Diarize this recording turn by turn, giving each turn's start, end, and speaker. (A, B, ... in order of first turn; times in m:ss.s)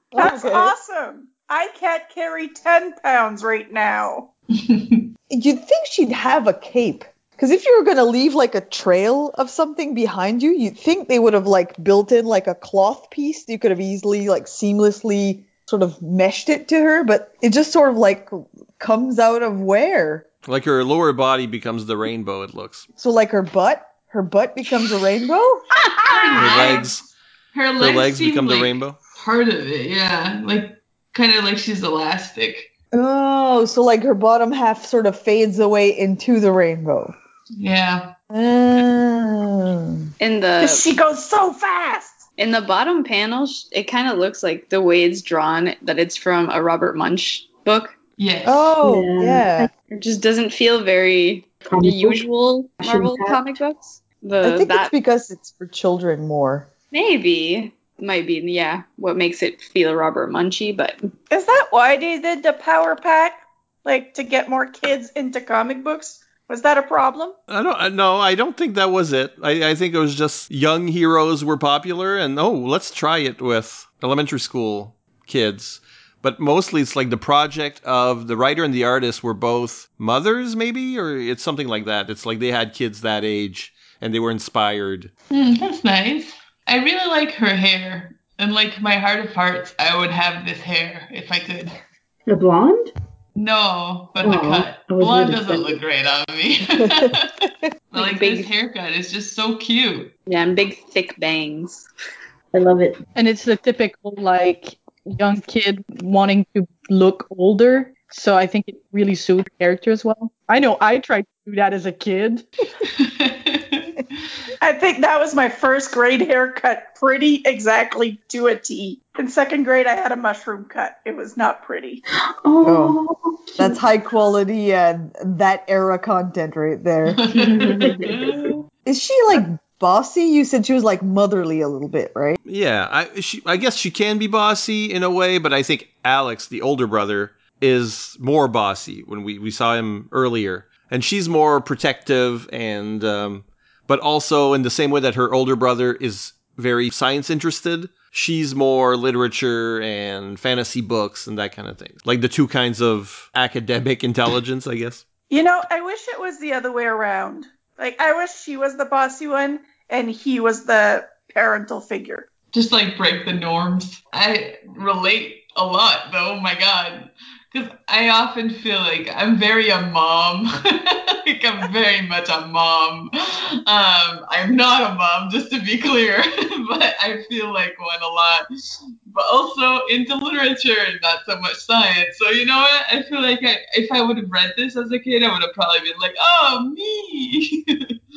0:00.1-0:00.7 A
0:00.2-0:04.3 B
0:04.5-0:05.0 C
0:05.3-0:20.3 A
0:20.4-0:22.9 D
0:23.0-0:25.6 A
0:26.0-0:27.0 C
0:26.3-0:27.0 D
0:27.5-0:32.7 C
0:27.8-0:29.0 D
0:32.9-0:37.2 A
0:37.6-0:38.1 C
0:38.3-0:40.0 A
0:40.2-0:40.8 E
0:40.6-0:42.2 B
0:42.4-0:47.9 E
0:48.2-0:48.7 C
0:48.4-0:49.7 A
0:48.8-0:49.7 F
0:49.9-0:54.9 E
0:51.7-0:52.3 F
0:52.8-0:53.4 F
0:54.4-0:56.7 A
0:56.9-1:01.1 E
1:01.3-1:07.4 B
1:07.5-1:25.1 D
1:25.3-1:31.7 C
1:32.3-1:32.9 F
1:33.3-1:40.1 C
1:34.2-1:35.8 F
1:37.9-1:38.5 E
1:40.2-1:41.9 E
1:42.5-1:43.0 F
1:43.1-1:52.4 G
1:52.8-1:54.0 C
1:54.6-2:02.0 B
2:02.4-2:03.8 F
2:02.6-2:03.0 A
2:03.6-2:07.8 A
2:07.1-2:08.6 C
2:07.5-2:08.5 F
2:07.6-2:07.9 E
2:08.8-2:12.4 A
2:12.4-2:35.0 D
2:35.3-2:42.3 B
2:42.5-2:58.4 C
2:59.1-3:07.9 C